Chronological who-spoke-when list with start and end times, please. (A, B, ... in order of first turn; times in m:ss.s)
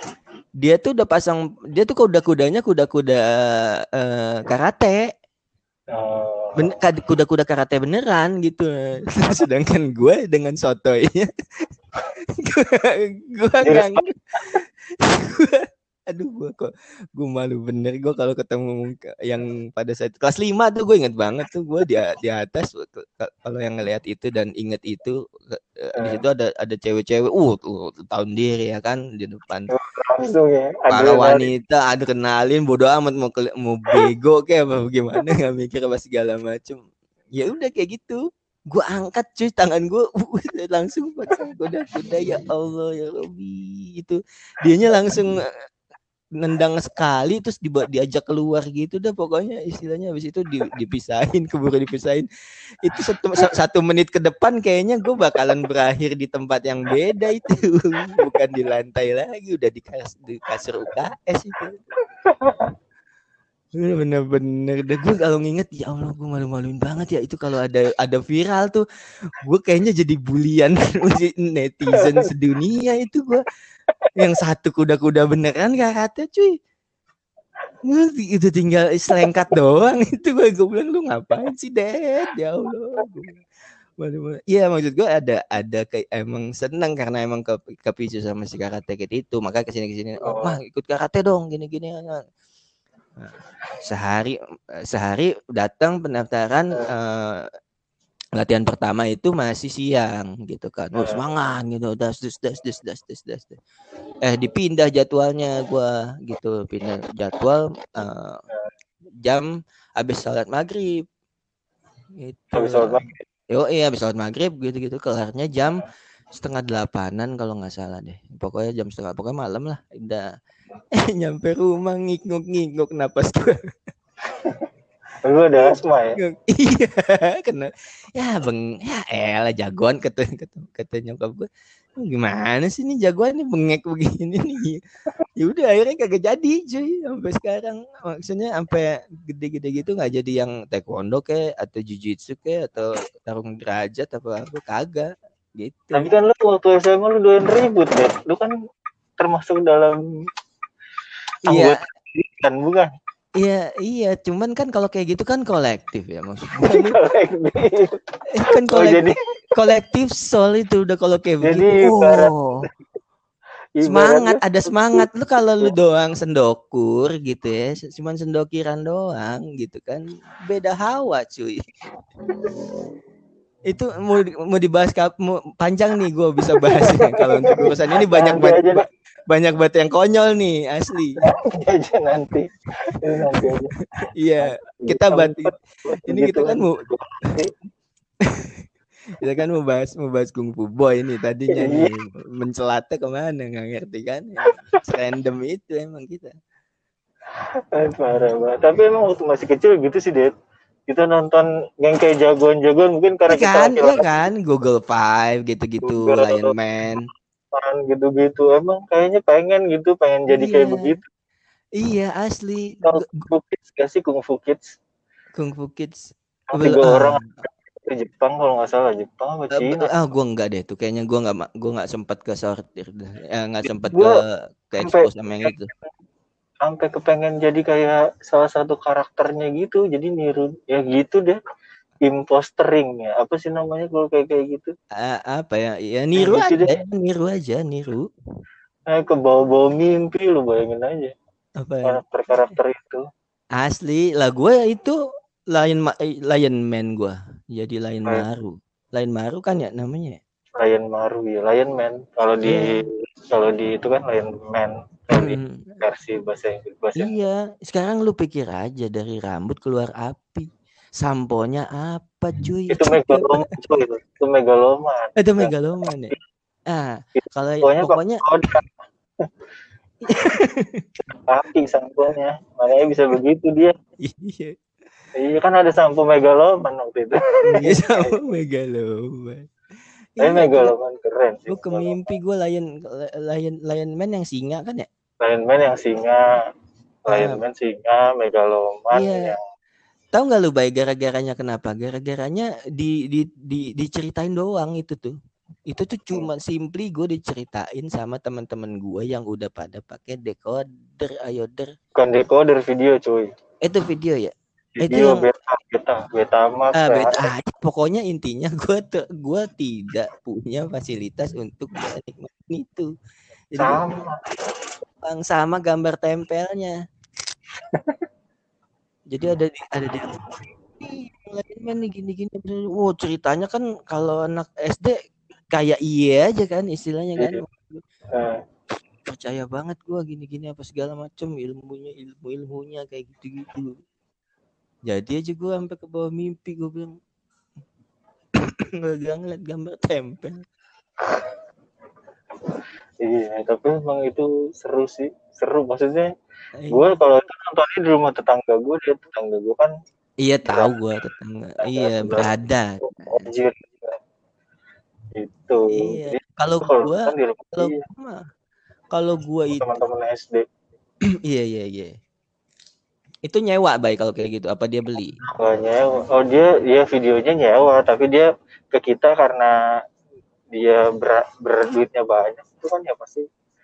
0:00.6-0:05.0 A
0:05.9-0:06.8 B
0:06.6-0:11.7 A
0:12.4-0:14.0 A
0:13.6-0:14.6 B
0:15.0-0:29.7 A
0:29.7-0:31.5 B
0:30.9-0:38.2 A
0:38.7-0:45.4 A
0:46.4-0:52.3 A
0:52.8-1:01.8 A
1:02.3-1:02.7 B
1:03.8-1:08.8 A
1:09.4-1:13.4 A
1:11.9-1:12.3 B
1:14.2-1:16.5 A
1:17.9-1:23.4 A
1:24.0-1:32.2 A
1:30.2-1:30.6 B
1:33.2-1:34.4 A
1:34.9-1:37.4 A
1:38.4-1:43.6 A
1:41.0-1:41.2 B
1:44.2-1:48.4 A
1:49.2-1:51.0 A
1:52.2-2:00.3 A
1:52.6-1:53.2 B
2:00.9-2:03.6 A
2:05.2-2:06.2 B
2:06.2-2:14.8 A
2:15.4-2:26.1 A
2:25.9-2:28.5 B
2:29.2-2:30.0 B
2:31.5-2:32.9 B
2:31.5-2:31.8 A
2:33.4-2:37.0 A
2:36.7-2:39.2 B
2:38.3-2:42.6 A
2:41.4-2:42.3 B
2:43.8-2:45.7 B
2:43.8-2:51.6 A
2:53.7-3:01.2 A
2:56.6-2:58.8 B
3:01.2-3:03.7 B
3:03.1-3:03.5 A
3:04.2-3:05.5 A
3:04.4-3:07.5 B
3:06.1-3:06.8 A
3:08.2-3:08.6 A
3:09.2-3:16.3 A
3:11.5-3:11.9 B
3:17.7-3:20.3 B
3:20.9-3:24.2 B
3:23.3-3:27.0 A
3:25.8-3:26.5 B
3:27.5-3:31.0 B
3:30.3-3:31.0 A
3:31.8-3:33.3 A
3:32.8-3:34.8 B
3:35.4-3:37.3 A
3:36.5-3:40.0 B
3:39.5-3:45.7 A
3:43.7-3:44.2 B
3:44.8-3:45.8 B
3:46.6-3:51.4 B
3:52.0-3:54.7 B
3:55.0-3:58.1 A
3:56.2-3:56.8 B
3:58.9-4:01.1 B
4:01.6-4:02.5 A
4:01.9-4:03.0 B
4:03.6-4:05.0 A
4:05.5-4:10.2 A
4:10.6-4:12.6 B
4:13.3-4:17.1 B
4:15.2-4:15.8 A
4:17.0-4:23.3 A
4:22.7-4:25.5 B
4:25.2-4:26.1 A
4:26.7-4:28.2 A
4:27.2-4:28.6 B
4:30.1-4:30.9 A
4:31.2-4:33.7 B
4:34.0-4:34.6 A
4:35.2-4:38.2 B
4:37.5-4:39.5 A
4:40.2-4:40.7 A
4:40.2-4:42.2 B
4:41.5-4:44.9 A
4:45.2-4:46.2 B
4:47.1-4:49.4 B
4:47.1-4:47.4 A
4:48.9-4:49.3 A
4:50.1-4:55.2 A
4:55.7-5:01.7 A
5:02.0-5:03.3 B
5:03.6-5:05.2 A
5:04.8-5:07.3 B
5:06.8-5:12.9 A
5:13.5-5:13.8 A
5:13.6-5:14.2 B
5:15.0-5:16.7 A
5:19.1-5:20.2 A
5:20.8-5:25.0 A
5:25.5-5:27.8 A
5:28.1-5:28.4 B
5:29.1-5:33.7 A
5:34.9-5:36.9 A
5:38.4-5:40.4 A
5:43.0-5:46.1 B
5:46.6-5:46.9 A
5:46.7-5:49.7 B
5:50.2-5:53.3 A
5:51.6-5:54.0 B
5:55.2-5:57.8 B
5:55.7-5:58.2 A
5:58.9-5:59.7 A
5:59.5-6:00.4 B
6:01.3-6:01.9 A
6:03.3-6:05.2 A
6:05.2-6:09.5 B
6:10.5-6:13.2 B